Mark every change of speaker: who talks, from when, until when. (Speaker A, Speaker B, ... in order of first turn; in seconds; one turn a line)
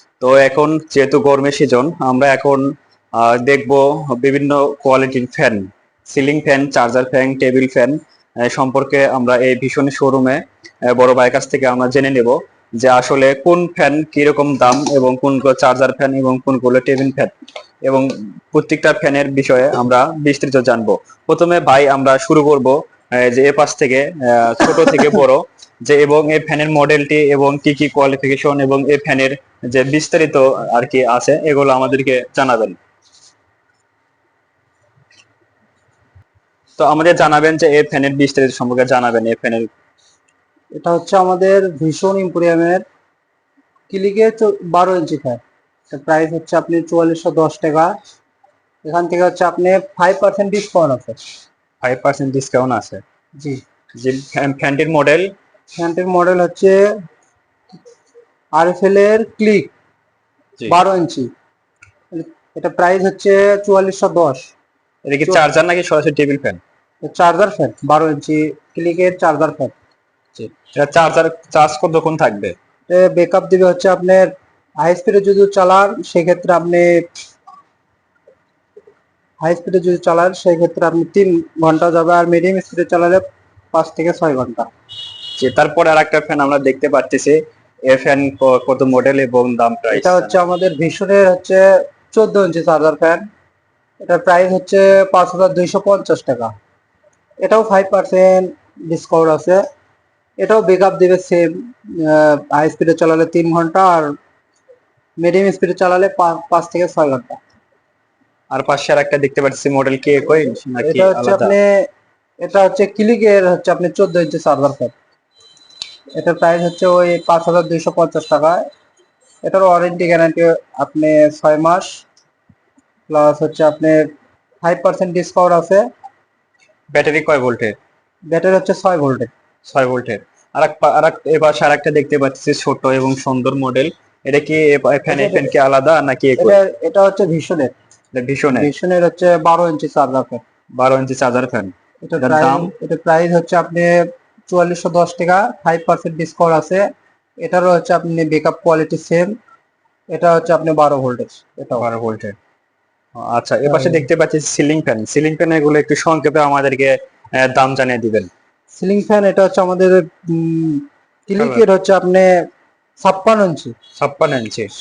Speaker A: 0.2-17.3
Speaker A: 17.8-32.8
Speaker A: 36.8-39.7
Speaker B: 40.7-42.8
Speaker B: 43.9-47.9
Speaker B: 48.8-51.2
Speaker A: 51.8-53.0
Speaker A: 54.0-55.3
Speaker B: 55.8-56.8
Speaker B: 58.6-59.7
Speaker B: 60.7-61.3
Speaker B: 62.1-64.5
Speaker A: 65.1-66.6
Speaker B: 67.0-69.7
Speaker A: 70.3-72.5
Speaker B: 72.9-77.0
Speaker B: 79.4-84.7
Speaker A: 85.4-90.3
Speaker B: 89.9-93.2
Speaker B: 94.0-96.5
Speaker B: 97.4-99.6
Speaker B: 100.4-104.1
Speaker B: 105.2-107.4
Speaker A: 108.5-111.5
Speaker B: 110.8-111.8
Speaker B: 112.4-114.9
Speaker B: 116.2-118.6
Speaker B: 119.4-122.0
Speaker B: 123.1-124.1
Speaker B: 124.6-125.8
Speaker A: 126.9-127.8
Speaker B: 128.3-129.3
Speaker A: 129.7-136.6
Speaker B: 135.1-135.5
Speaker B: 136.4-137.7
Speaker A: 138.1-138.7
Speaker B: 138.5-140.4
Speaker A: 140.8-142.7
Speaker B: 142.0-146.8
Speaker B: 147.4-149.3
Speaker B: 150.1-151.8
Speaker A: 151.8-152.3
Speaker A: 153.2-158.3
Speaker B: 153.6-154.0
Speaker B: 158.7-162.3
Speaker A: 161.4-161.6
Speaker B: 163.0-163.7
Speaker A: 164.0-164.7